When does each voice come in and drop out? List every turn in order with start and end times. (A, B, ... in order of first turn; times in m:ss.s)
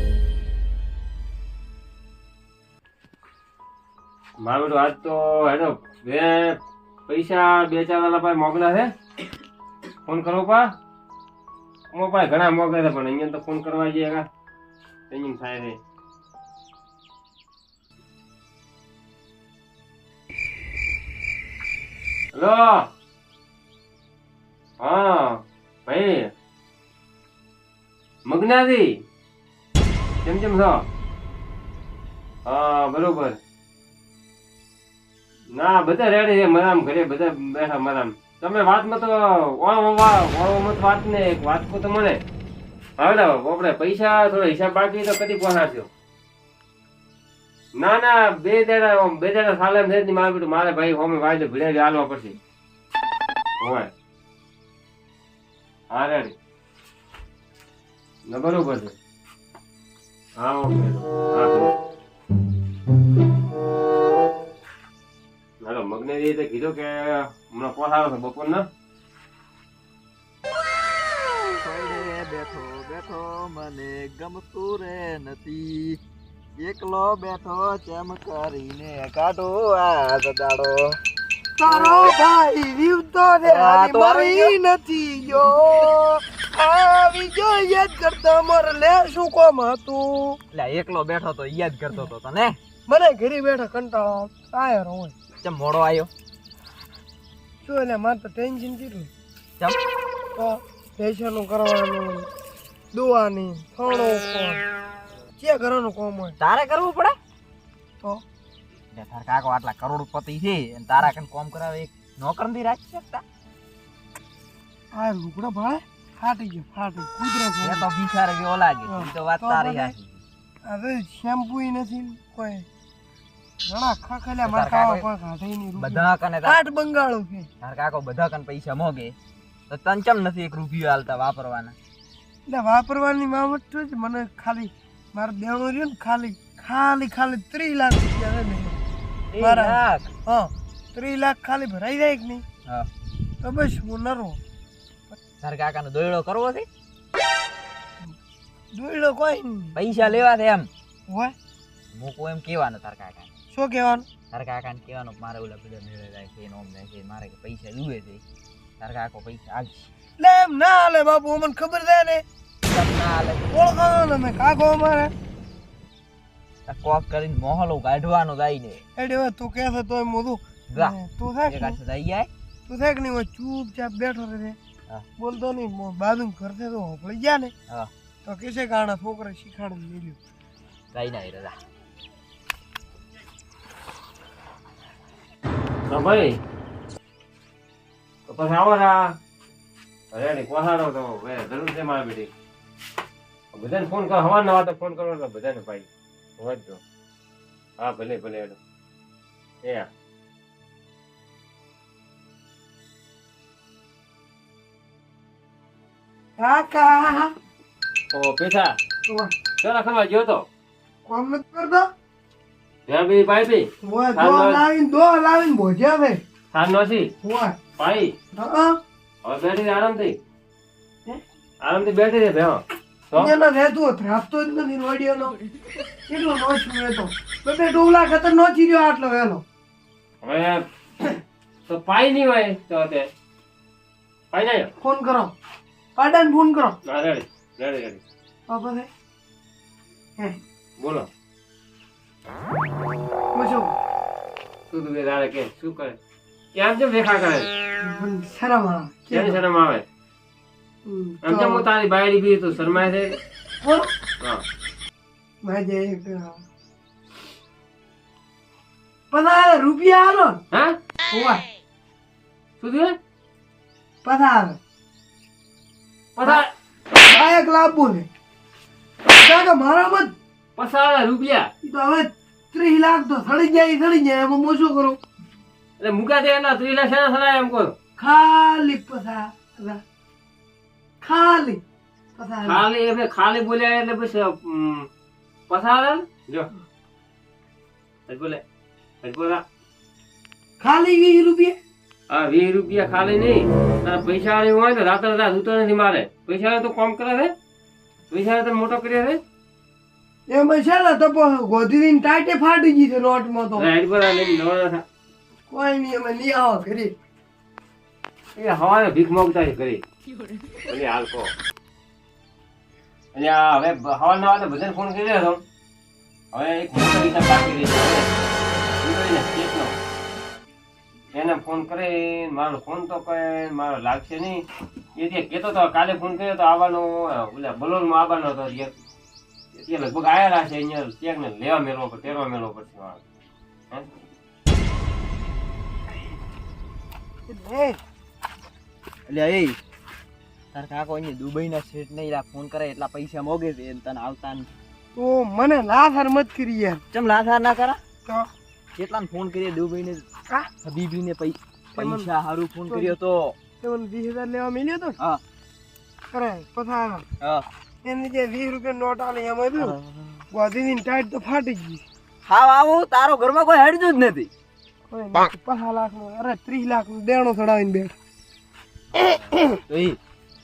0:04.4-0:08.9 A
0:10.0-0:10.7 A
0:11.9-0:14.2 A
0:15.1-0:15.8 A
0:22.3-0:22.9 A
0:24.8-0:26.3 A
0:28.3-0:28.9 A
0:30.2-0:30.8 A
0:32.4-0:33.4 A
0:35.5-0:42.2 A
0:43.0-0:45.9 A
0:47.8-0:52.4 A
0:53.6-0:53.9 A
0:55.9-0:56.3 A
0:58.2-0:58.9 A
1:00.4-1:01.7 A
1:05.6-1:08.6 A
1:11.6-1:16.0 B
1:16.6-1:21.0 B
1:21.6-1:30.4 C
1:21.7-1:22.1 B
1:23.4-1:24.5 B
1:30.5-1:32.6 B
1:32.9-1:35.1 C
1:35.4-1:36.1 B
1:37.6-1:39.1 C
1:40.4-1:42.3 C
1:42.9-1:44.6 C
1:45.4-1:46.4 C
1:46.4-1:47.2 B
1:48.9-1:53.2 B
1:54.9-1:57.8 C
1:57.6-2:00.2 B
1:58.9-1:59.9 C
2:00.6-2:02.6 C
2:03.6-2:07.5 C
2:04.4-2:05.1 B
2:05.8-2:06.6 B
2:07.6-2:09.1 B
2:09.7-2:11.7 B
2:12.5-2:18.8 C
2:19.3-2:20.1 B
2:19.4-2:22.4 C
2:23.4-2:24.4 C
2:25.4-2:26.7 B
2:28.7-2:29.8 C
2:29.7-2:30.7 B
2:31.1-2:31.3 C
2:31.9-2:33.3 B
2:33.5-2:34.1 C
2:34.3-2:38.2 B
2:38.8-2:39.9 B
2:40.2-2:42.2 C
2:42.6-2:43.5 B
2:43.5-2:45.1 C
2:46.7-2:48.8 B
2:49.0-2:51.8 C
2:51.5-2:52.3 B
2:52.7-2:54.6 C
2:55.2-2:57.5 C
2:58.2-3:00.2 C
3:00.9-3:01.6 B
3:05.9-3:06.4 A
3:08.3-3:09.1 A
3:10.1-3:12.3 A
3:13.5-3:16.8 A
3:17.8-3:18.6 A
3:26.4-3:27.3 C
3:28.1-3:28.8 A
3:29.1-3:29.3 C
3:29.6-3:30.4 A
3:31.1-3:31.9 C
3:32.9-3:34.6 A
3:33.8-3:36.2 C
3:36.5-3:37.1 A
3:37.2-3:37.6 C
3:37.8-3:38.1 A
3:38.3-3:38.8 C
3:39.2-3:40.2 A
3:41.6-3:43.3 A
3:43.1-3:45.3 C
3:46.1-3:49.4 C
3:50.2-3:50.6 A
3:51.7-3:53.1 A
3:54.3-3:54.7 A
3:54.8-3:55.3 C
3:56.0-3:56.8 C
3:56.8-3:58.0 A
3:58.5-3:58.9 C
4:00.8-4:01.1 A
4:03.3-4:03.7 C
4:04.7-4:06.0 A
4:06.5-4:07.5 A
4:07.8-4:09.4 C
4:09.1-4:09.8 A
4:10.8-4:11.6 C
4:11.2-4:13.2 A
4:13.6-4:13.9 C
4:15.4-4:16.4 C
4:19.1-4:20.4 C
4:21.1-4:21.4 C
4:22.6-4:23.0 A
4:24.0-4:24.6 C
4:26.2-4:26.5 A
4:27.0-4:28.1 C
4:29.2-4:30.1 C
4:30.6-4:31.5 A
4:31.6-4:35.0 C
4:35.8-4:37.7 A
4:38.0-4:39.8 C
4:41.0-4:41.6 C
4:42.2-4:42.6 C
4:42.4-4:44.9 A
4:45.5-4:46.5 A
4:48.1-4:48.4 A
4:49.0-4:49.4 A
4:50.6-4:51.6 C
4:52.1-4:57.3 A
4:58.1-4:59.2 A
5:00.3-5:03.7 C
5:03.6-5:04.8 A
5:05.5-5:06.9 C
5:08.4-5:09.8 A
5:10.6-5:11.3 A
5:13.1-5:15.4 A
5:16.3-5:18.1 A
5:18.8-5:19.7 A
5:21.1-5:24.4 A
5:25.0-5:28.7 A
5:29.5-5:33.0 A
5:37.3-5:37.8 C
5:39.1-5:39.6 B
5:40.5-5:44.5 B
5:44.9-5:46.8 C
5:46.9-5:47.8 B
5:48.8-5:50.0 B
5:50.6-5:53.4 B
5:51.8-5:52.1 C
5:52.7-5:52.9 C
5:53.6-5:55.0 C
5:56.1-5:57.0 C
5:57.2-5:57.4 B
5:57.8-5:59.7 C
5:59.6-6:00.2 B
6:00.3-6:01.8 C
6:02.2-6:04.3 B
6:04.9-6:07.9 C
6:09.7-6:10.0 B